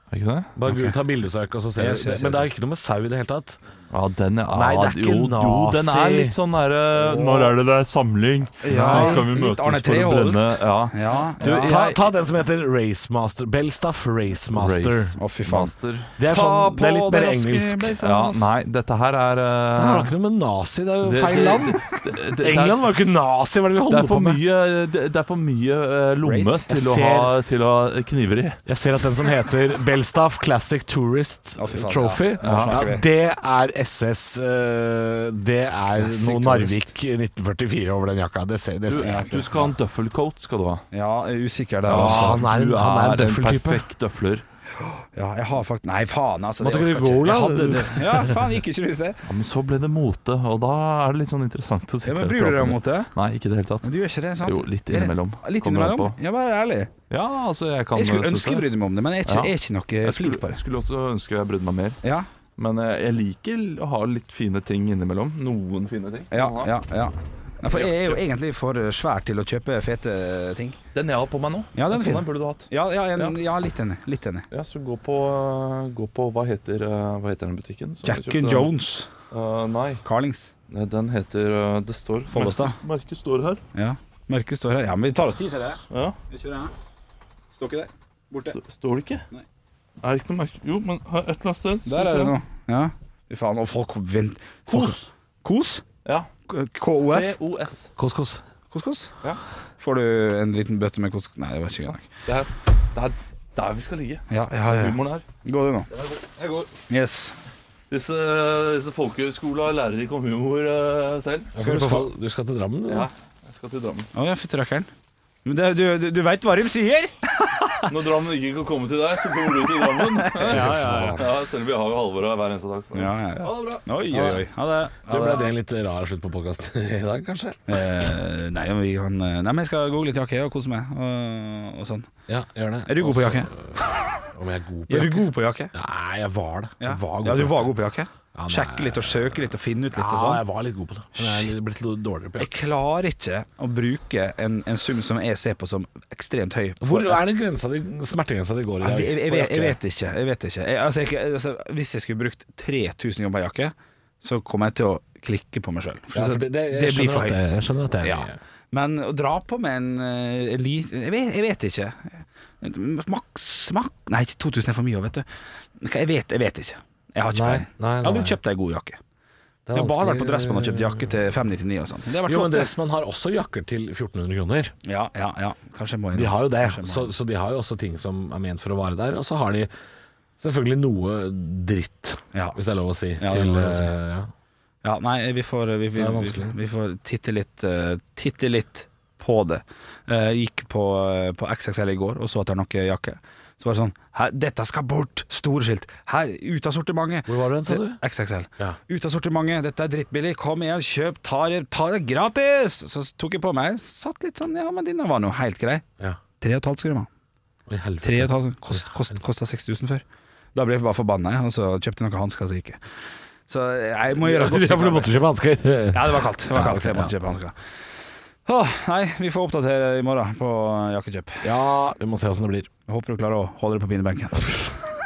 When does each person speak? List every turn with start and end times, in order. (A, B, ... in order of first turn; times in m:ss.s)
0:00.1-0:00.5 A
0:00.6-0:03.6 B
0:00.7-0:01.0 C
0:01.8-0:02.5 C
0:03.9-0:12.0 A
0:04.5-0:06.4 B
0:07.0-0:07.6 C
0:08.6-0:11.8 C
0:08.7-0:09.2 B
0:11.4-0:15.2 B
0:14.5-0:16.1 A
0:15.2-0:18.4 C
0:16.2-0:18.0 B
0:18.0-0:20.1 A
0:19.7-0:24.4 B
0:21.0-0:22.9 A
0:23.8-0:28.6 A
0:26.2-0:26.7 C
0:26.7-0:27.3 B
0:28.6-0:39.6 B
0:31.6-0:33.0 C
0:32.4-0:32.8 A
0:36.1-0:36.7 A
0:38.9-0:40.8 A
0:39.0-0:39.7 C
0:40.9-0:42.4 C
0:41.9-0:43.8 B
0:41.9-0:44.4 A
0:45.0-0:49.2 C
0:46.6-0:48.4 B
0:49.3-0:53.9 A
0:52.0-0:53.1 C
0:53.8-0:56.9 C
0:54.4-0:56.2 A
0:57.1-0:58.7 A
0:57.9-1:00.6 C
0:59.2-1:02.0 A
1:02.0-1:02.3 C
1:02.6-1:06.7 A
1:06.3-1:10.8 C
1:07.6-1:08.2 A
1:10.9-1:13.4 A
1:11.7-1:14.4 C
1:14.5-1:18.7 A
1:18.0-1:19.1 C
1:19.3-1:20.0 A
1:20.0-1:20.5 C
1:20.7-1:23.6 A
1:22.3-1:22.8 C
1:23.7-1:26.7 C
1:25.9-1:26.2 A
1:27.5-1:28.6 C
1:28.5-1:29.2 A
1:30.0-1:32.3 A
1:31.8-1:35.8 C
1:34.7-1:35.1 A
1:36.5-1:37.4 C
1:36.9-1:37.9 A
1:38.0-1:38.4 B
1:38.7-1:39.1 C
1:39.8-1:42.0 C
1:41.8-1:45.2 A
1:44.3-1:45.9 C
1:45.9-1:46.7 A
1:46.9-1:47.4 C
1:47.9-1:51.9 A
1:51.6-1:53.1 B
1:51.6-1:52.0 C
1:52.9-1:54.1 A
1:54.1-1:54.9 C
1:55.4-1:57.9 C
1:57.9-2:03.8 A
1:59.7-2:01.2 C
2:00.4-2:01.2 B
2:02.9-2:05.5 C
2:05.1-2:07.6 B
2:05.1-2:05.4 A
2:07.7-2:12.1 C
2:12.3-2:17.7 B
2:12.9-2:14.1 C
2:14.9-2:15.7 C
2:16.8-2:20.4 C
2:18.3-2:22.5 B
2:21.1-2:21.5 C
2:22.4-2:27.2 C
2:26.8-2:29.8 B
2:28.8-2:45.2 C
2:36.1-2:38.4 B
2:45.8-2:49.0 C
2:47.3-2:48.4 B
2:49.6-2:51.1 B
2:49.7-2:52.7 C
2:52.2-2:54.7 B
2:54.8-2:57.1 C
2:56.1-2:59.7 B
3:00.4-3:04.3 B
3:03.2-3:03.9 C
3:04.8-3:25.8 C
3:05.9-3:06.5 B
3:17.3-3:18.0 B
3:26.4-3:27.1 C
3:27.7-3:28.3 B
3:28.0-3:30.0 C
3:30.5-3:32.8 C
3:33.5-3:35.2 C
3:34.2-3:37.1 B
3:35.9-3:37.5 C
3:38.4-3:41.5 C
3:41.4-3:42.7 B
3:42.9-3:44.7 C